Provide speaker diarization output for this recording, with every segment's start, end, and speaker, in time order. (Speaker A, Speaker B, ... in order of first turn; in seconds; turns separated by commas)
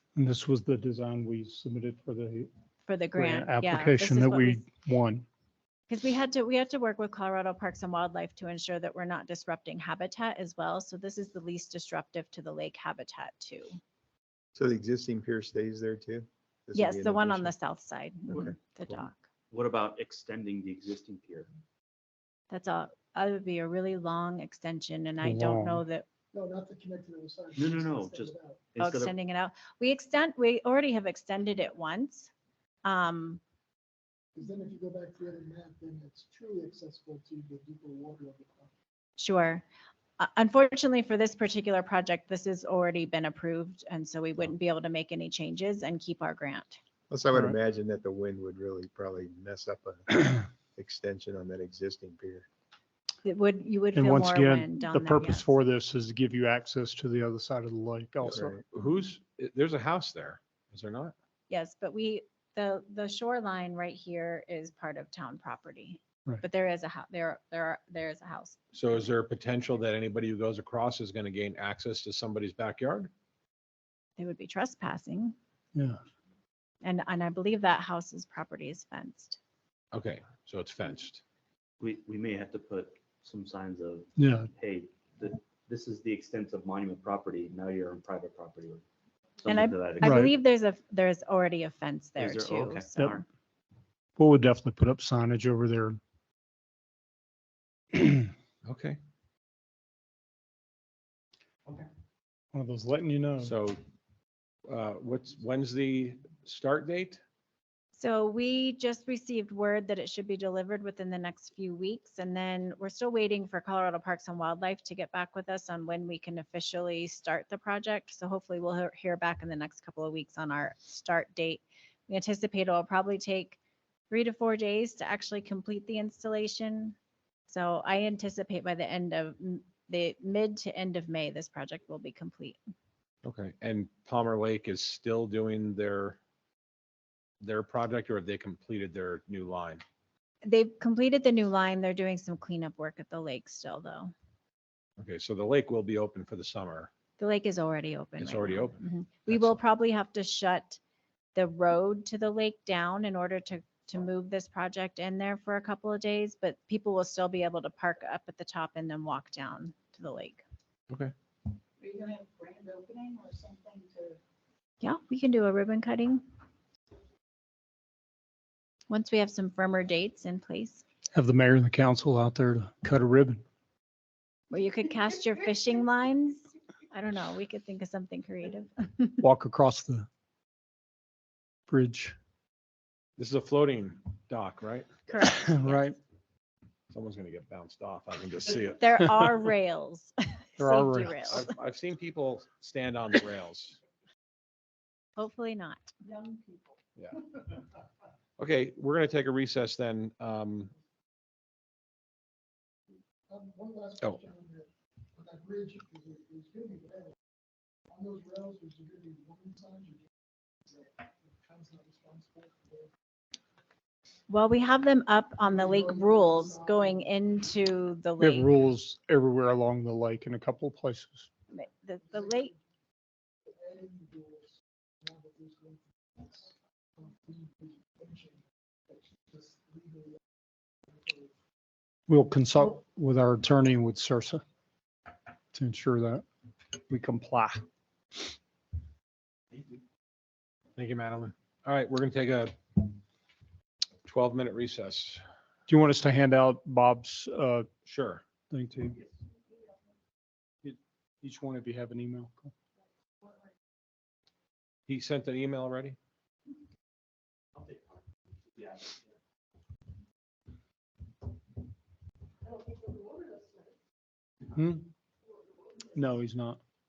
Speaker A: 0.1-2.5, Speaker B: 2.9-4.6, Speaker A: 3.1-5.2, Speaker B: 5.9-13.8, Speaker C: 14.6-17.5, Speaker B: 16.7-19.3, Speaker C: 18.3-18.9, Speaker D: 19.5-21.5, Speaker B: 22.5-26.0, Speaker A: 25.2-25.8, Speaker E: 26.3-28.6, Speaker D: 27.5-29.1, Speaker B: 28.8-32.3, Speaker B: 32.8-33.4, Speaker E: 34.3-38.7, Speaker B: 39.2-39.6, Speaker B: 40.2-46.8, Speaker C: 47.1-52.5, Speaker B: 53.2-55.5, Speaker A: 53.9-58.6, Speaker C: 58.2-58.6, Speaker F: 58.7-61.1, Speaker B: 61.5-68.6, Speaker F: 68.7-73.1, Speaker B: 74.2-75.3, Speaker B: 76.8-79.4, Speaker F: 79.9-81.2, Speaker D: 81.8-88.8, Speaker A: 84.2-84.5, Speaker D: 89.4-90.2, Speaker B: 89.5-93.2, Speaker A: 90.0-90.3, Speaker D: 92.2-93.2, Speaker A: 94.2-96.0, Speaker A: 98.0-98.2, Speaker F: 98.6-99.0, Speaker A: 102.5-103.5, Speaker F: 103.4-103.8, Speaker F: 104.7-107.2, Speaker B: 107.9-123.6, Speaker B: 124.1-127.0, Speaker B: 127.5-132.6, Speaker F: 133.2-136.2, Speaker F: 137.4-139.8, Speaker B: 140.4-144.1, Speaker F: 145.0-146.9, Speaker B: 147.2-150.8, Speaker F: 148.2-149.6, Speaker B: 151.3-160.4, Speaker G: 161.8-164.2, Speaker B: 164.8-166.2, Speaker B: 168.9-170.8, Speaker A: 171.1-173.4, Speaker B: 174.5-179.2, Speaker A: 179.2-180.1, Speaker A: 181.7-182.2, Speaker F: 183.2-185.0, Speaker B: 185.1-185.7, Speaker A: 185.2-186.0, Speaker F: 186.9-188.8, Speaker B: 188.8-191.4, Speaker A: 190.6-191.3, Speaker F: 191.3-193.8, Speaker B: 195.2-195.9, Speaker G: 196.0-196.7, Speaker F: 198.4-200.7, Speaker E: 203.3-207.1, Speaker E: 207.9-210.1, Speaker E: 210.7-212.9, Speaker B: 214.3-218.5, Speaker E: 215.4-217.0, Speaker A: 218.2-221.3, Speaker B: 221.5-222.5, Speaker E: 222.1-222.6, Speaker E: 223.5-230.2, Speaker E: 230.9-231.3, Speaker A: 232.1-234.4, Speaker A: 235.5-236.2, Speaker A: 236.9-237.6, Speaker F: 240.8-243.0, Speaker F: 244.0-245.2, Speaker A: 245.7-247.7, Speaker F: 247.8-248.2, Speaker A: 248.5-249.0, Speaker A: 250.6-252.5, Speaker F: 254.9-256.0, Speaker G: 262.5-263.5, Speaker A: 264.5-264.9, Speaker A: 265.9-266.6